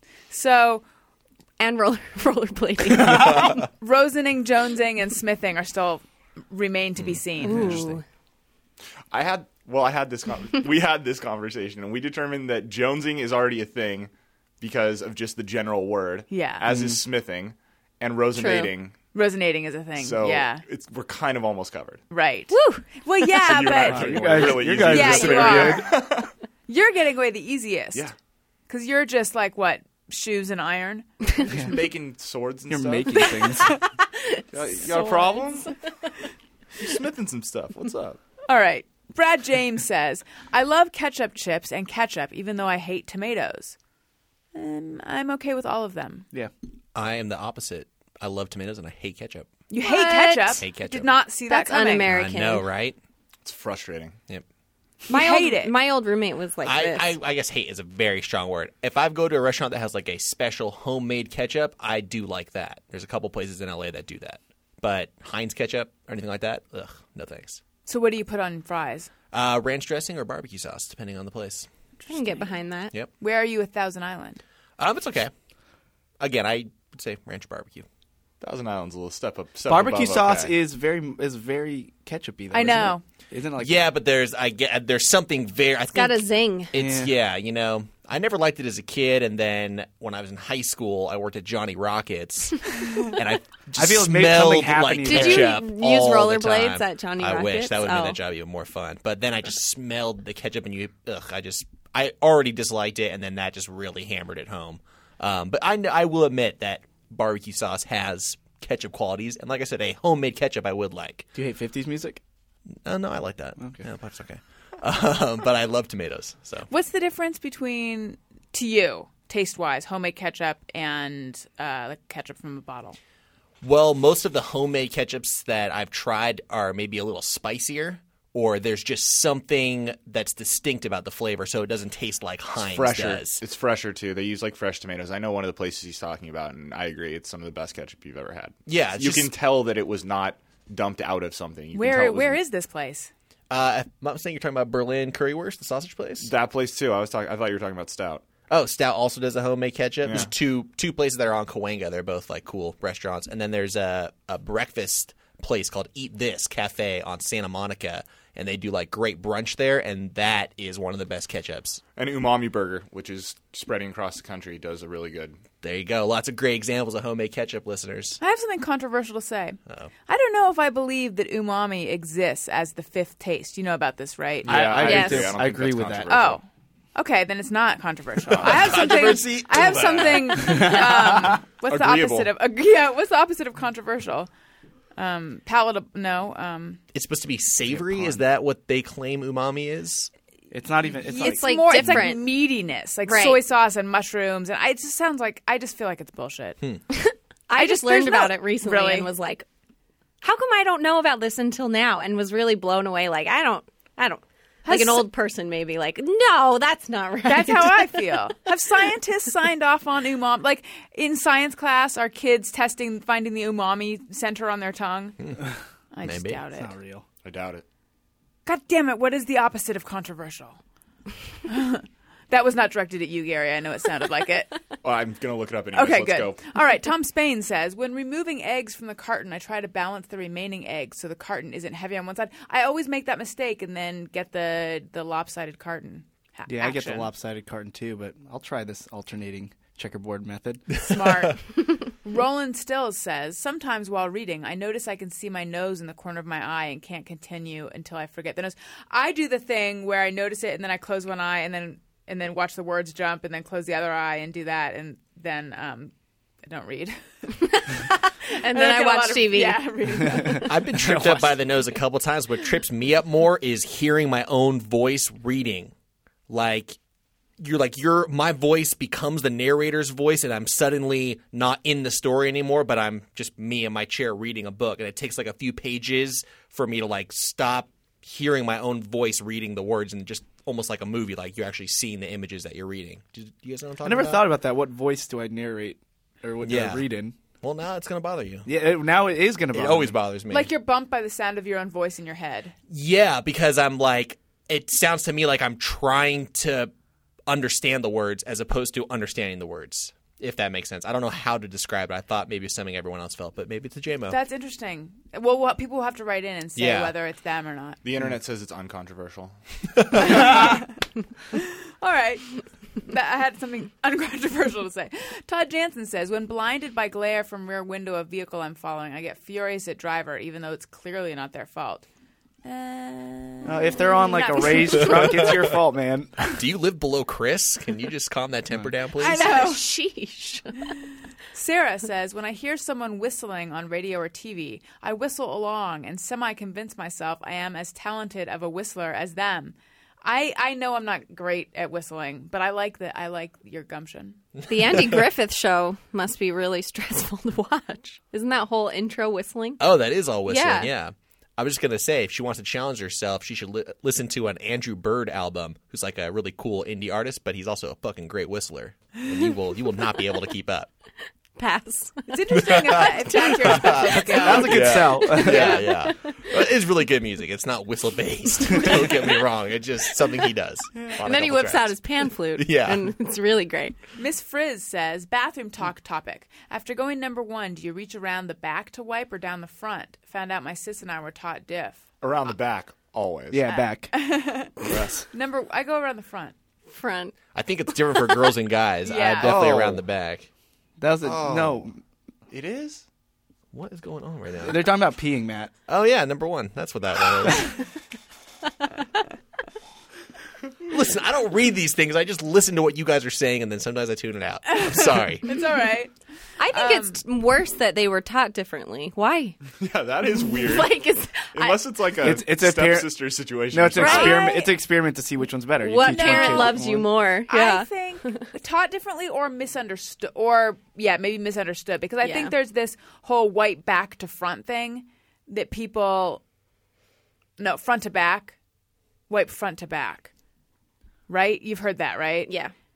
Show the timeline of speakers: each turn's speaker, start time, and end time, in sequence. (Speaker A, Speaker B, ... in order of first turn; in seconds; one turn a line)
Speaker A: 0.3-0.8
Speaker B: 1.6-3.6
Speaker C: 3.0-3.5
Speaker A: 3.8-7.8
Speaker B: 7.4-8.0
Speaker D: 7.5-7.8
Speaker E: 9.1-18.9
Speaker A: 16.3-16.6
Speaker C: 16.7-17.0
Speaker B: 18.3-18.7
Speaker A: 19.1-20.6
Speaker E: 19.9-22.0
Speaker A: 22.1-25.9
Speaker B: 22.5-23.0
Speaker E: 23.4-26.3
Speaker C: 23.8-25.9
Speaker A: 26.7-28.1
Speaker A: 28.7-31.1
Speaker C: 31.5-31.7
Speaker E: 31.5-33.4
Speaker C: 32.7-33.8
Speaker B: 34.2-35.4
Speaker E: 34.5-35.8
Speaker E: 36.8-38.2
Speaker A: 38.5-43.7
Speaker A: 44.5-46.2
Speaker D: 46.9-49.5
Speaker A: 49.7-52.1
Speaker B: 49.8-50.6
Speaker D: 50.6-51.1
Speaker B: 51.5-52.6
Speaker D: 52.1-53.0
Speaker E: 53.4-54.2
Speaker A: 55.1-55.7
Speaker B: 55.1-57.1
Speaker D: 56.6-67.6
Speaker A: 67.9-69.1
Speaker D: 69.3-71.7
Speaker A: 72.0-72.5
Speaker B: 72.1-72.9
Speaker A: 73.2-74.4
Speaker D: 74.8-75.3
Speaker D: 76.2-77.8
Speaker E: 78.4-80.5
Speaker C: 79.7-83.8
Speaker A: 82.5-83.0
Speaker D: 83.6-111.3
Speaker B: 85.9-86.7
Speaker C: 86.7-87.1
Speaker C: 93.8-95.6
Speaker B: 95.0-98.2
Speaker C: 111.3-112.2
Speaker D: 112.8-116.7
Speaker C: 113.6-113.8
Speaker A: 116.7-123.0
Speaker D: 123.6-133.4
Speaker E: 132.6-142.4
Speaker D: 138.7-139.3
Speaker A: 141.7-143.1
Speaker D: 143.5-146.3
Speaker E: 146.2-148.2
Speaker D: 148.5-161.8
Speaker E: 150.0-150.3
Speaker E: 161.9-165.4
Speaker D: 165.6-168.2
Speaker A: 168.2-175.3
Speaker E: 174.4-176.4
Speaker C: 174.4-176.1
Speaker A: 176.1-184.3
Speaker E: 178.3-178.8
Speaker D: 178.3-180.4
Speaker C: 180.3-181.4
Speaker E: 181.7-182.3
Speaker A: 185.0-186.8
Speaker D: 186.9-190.1
Speaker E: 187.7-188.2
Speaker C: 190.5-192.0
Speaker A: 191.1-196.6
Speaker B: 191.1-192.3
Speaker B: 193.1-193.4
Speaker B: 196.9-199.4
Speaker A: 197.5-199.1
Speaker B: 200.2-208.0
Speaker A: 204.7-205.1
Speaker A: 207.2-215.2
Speaker A: 215.9-216.7
Speaker D: 216.0-216.4
Speaker C: 216.5-217.0
Speaker E: 217.2-217.6
Speaker A: 218.4-220.6
Speaker A: 221.4-224.6
Speaker E: 224.8-226.4
Speaker A: 225.7-237.1
Speaker C: 236.4-240.7
Speaker A: 240.8-260.5
Speaker B: 257.6-260.4
Speaker D: 260.4-265.7
Speaker C: 260.8-261.3
Speaker D: 266.3-266.8
Speaker D: 267.4-284.2
Speaker C: 283.8-287.1
Speaker D: 286.4-286.8
Speaker D: 287.4-288.5
Speaker C: 288.4-289.9
Speaker D: 289.5-290.5
Speaker A: 290.3-292.5
Speaker D: 292.7-296.7
Speaker D: 297.3-304.2
Speaker A: 304.1-307.8
Speaker D: 306.6-306.9
Speaker E: 307.8-309.4
Speaker E: 309.9-310.4
Speaker A: 309.9-321.8
Speaker A: 322.4-325.4
Speaker C: 323.4-326.4
Speaker D: 326.3-329.4
Speaker A: 329.0-329.7
Speaker B: 329.1-330.8
Speaker A: 331.3-344.2
Speaker B: 344.5-349.6
Speaker D: 349.6-360.7
Speaker B: 350.2-350.7
Speaker B: 361.4-364.2
Speaker A: 362.1-364.7
Speaker D: 362.5-362.8
Speaker D: 363.4-372.9
Speaker C: 364.2-365.6
Speaker E: 364.5-365.0
Speaker B: 365.0-366.4
Speaker A: 365.2-365.5
Speaker B: 368.4-369.2
Speaker B: 370.9-373.8
Speaker A: 374.0-381.8
Speaker E: 382.0-383.6
Speaker C: 383.3-383.9
Speaker A: 383.5-384.6
Speaker C: 384.6-385.1
Speaker E: 384.6-384.9
Speaker A: 385.1-386.3
Speaker B: 386.7-387.1
Speaker D: 387.3-390.3
Speaker A: 388.8-389.4
Speaker C: 389.2-389.8
Speaker C: 390.8-391.8
Speaker E: 391.0-391.6
Speaker E: 392.3-392.8
Speaker D: 393.5-394.6
Speaker C: 394.4-395.5
Speaker D: 395.7-397.6
Speaker D: 400.7-405.3
Speaker A: 404.5-405.9
Speaker B: 406.4-409.4
Speaker A: 406.5-407.0
Speaker E: 409.6-414.2
Speaker B: 410.1-411.6
Speaker C: 412.0-412.9
Speaker C: 413.5-416.9
Speaker A: 413.8-414.5
Speaker B: 413.8-414.2
Speaker B: 415.6-418.3
Speaker A: 415.9-416.6
Speaker A: 417.3-426.2
Speaker B: 422.0-422.3
Speaker A: 427.4-428.4
Speaker A: 429.1-430.1
Speaker A: 431.1-432.3
Speaker B: 432.3-432.5